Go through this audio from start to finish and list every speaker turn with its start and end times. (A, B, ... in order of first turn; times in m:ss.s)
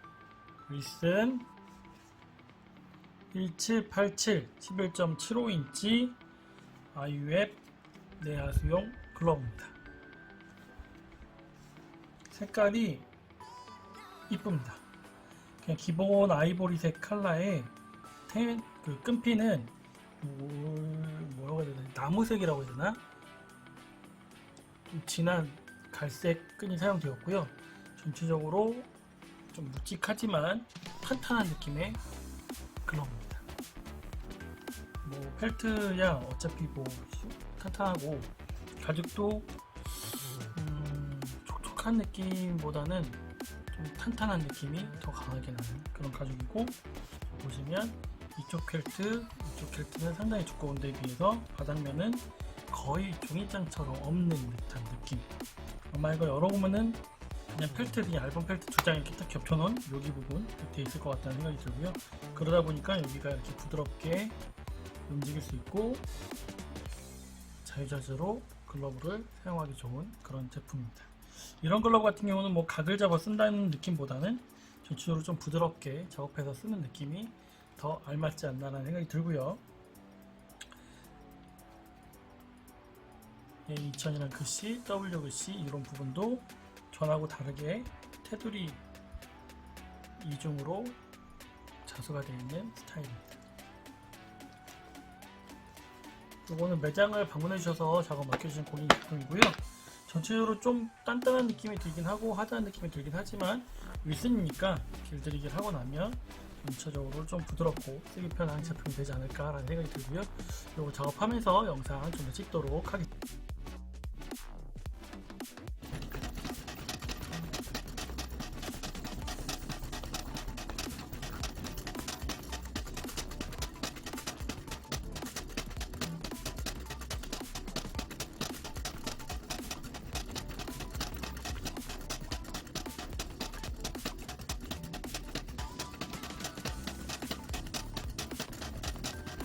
0:00.7-0:01.5 A
0:03.3-0:06.2 A
0:06.9-0:07.6 A
0:08.2-0:09.8 A
0:12.3-0:13.0 A
0:14.3-0:14.8 A
0:15.6-0:17.7 A
0:18.3-0:23.0 A
0:24.9-0:28.9 A
0:29.5-0:32.0 A
0:32.8-0:33.4 A
0:35.0-0:46.8 A
0:47.3-0:55.3 A
0:55.9-1:04.4 A
1:05.1-1:06.1 A
1:07.6-1:19.6 A
1:23.7-1:28.8 A
1:30.2-1:31.0 A
1:31.8-1:33.4 A
1:36.4-1:53.1 A